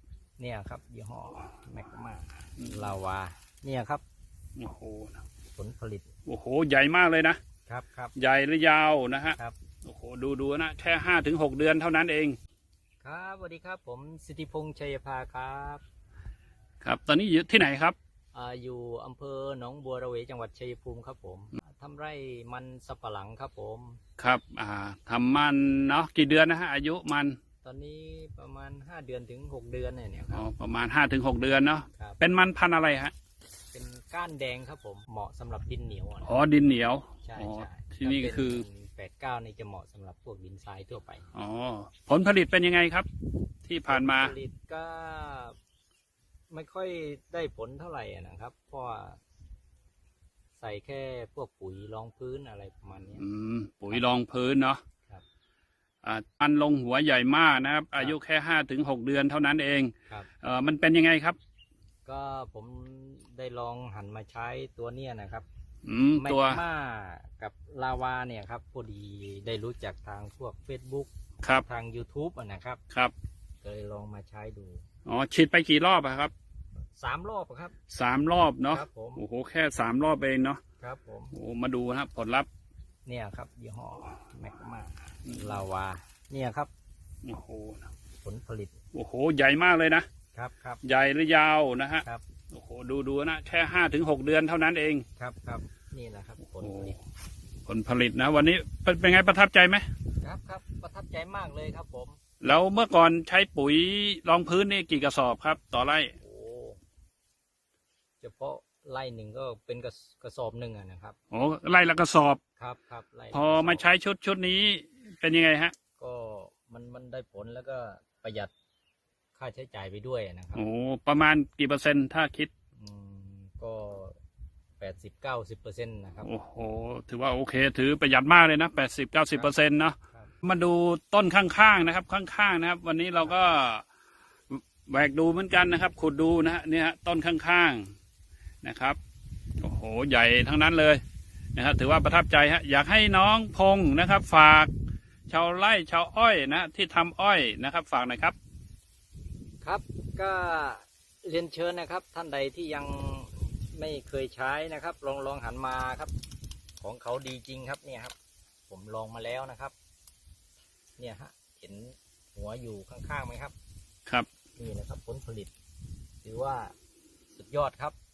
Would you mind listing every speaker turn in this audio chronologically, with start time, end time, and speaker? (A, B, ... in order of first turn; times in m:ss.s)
0:00.4-0:04.0 A
0:04.6-0:05.2 B
0:05.6-0:06.1 A
0:06.2-0:07.4 B
0:07.7-0:08.1 A
0:08.2-0:12.4 B
0:13.0-0:15.8 A
0:16.8-0:17.9 B
0:18.3-0:24.0 A
0:24.2-0:27.4 B
0:27.6-0:30.5 A
0:30.3-0:33.1 B
0:33.7-0:36.3 A
0:36.2-0:38.6 B
0:37.2-0:41.3 A
0:41.3-0:43.1 B
0:43.6-0:44.3 B
0:43.9-0:45.6 A
0:46.5-0:49.2 A
0:50.6-0:53.2 A
0:53.2-0:54.8 B
0:56.0-1:01.4 B
1:02.0-1:05.5 A
1:05.8-1:06.6 B
1:06.2-1:11.1 A
1:11.6-1:12.8 A
1:13.6-1:14.8 A
1:15.0-1:16.3 B
1:17.0-1:17.7 A
1:17.9-1:20.6 B
1:18.7-1:19.2 A
1:20.8-1:21.3 A
1:21.3-1:22.5 B
1:23.0-1:26.7 A
1:27.2-1:27.9 B
1:28.2-1:28.8 A
1:28.9-1:30.0 B
1:30.3-1:30.8 A
1:30.8-1:35.0 B
1:35.2-1:37.0 A
1:36.6-1:36.9 B
1:37.7-1:39.8 B
1:40.2-1:42.2 A
1:42.4-1:46.1 B
1:46.2-1:46.8 A
1:48.2-1:51.2 A
1:51.3-1:52.4 B
1:52.6-1:53.8 A
1:53.3-1:55.7 B
1:56.0-1:58.5 A
1:59.4-2:00.6 A
2:00.5-2:02.5 B
2:02.8-2:04.2 A
2:04.8-2:06.3 A
2:06.2-2:13.8 B
2:14.5-2:17.9 B
2:18.6-2:19.0 B
2:19.6-2:21.0 B
2:21.5-2:24.7 B
2:25.3-2:28.4 B
2:29.6-2:36.1 A
2:36.8-2:38.1 A
2:38.7-2:39.7 A
2:41.0-2:43.5 A
2:44.6-2:45.5 A
2:46.2-2:46.7 A
2:47.4-2:47.9 A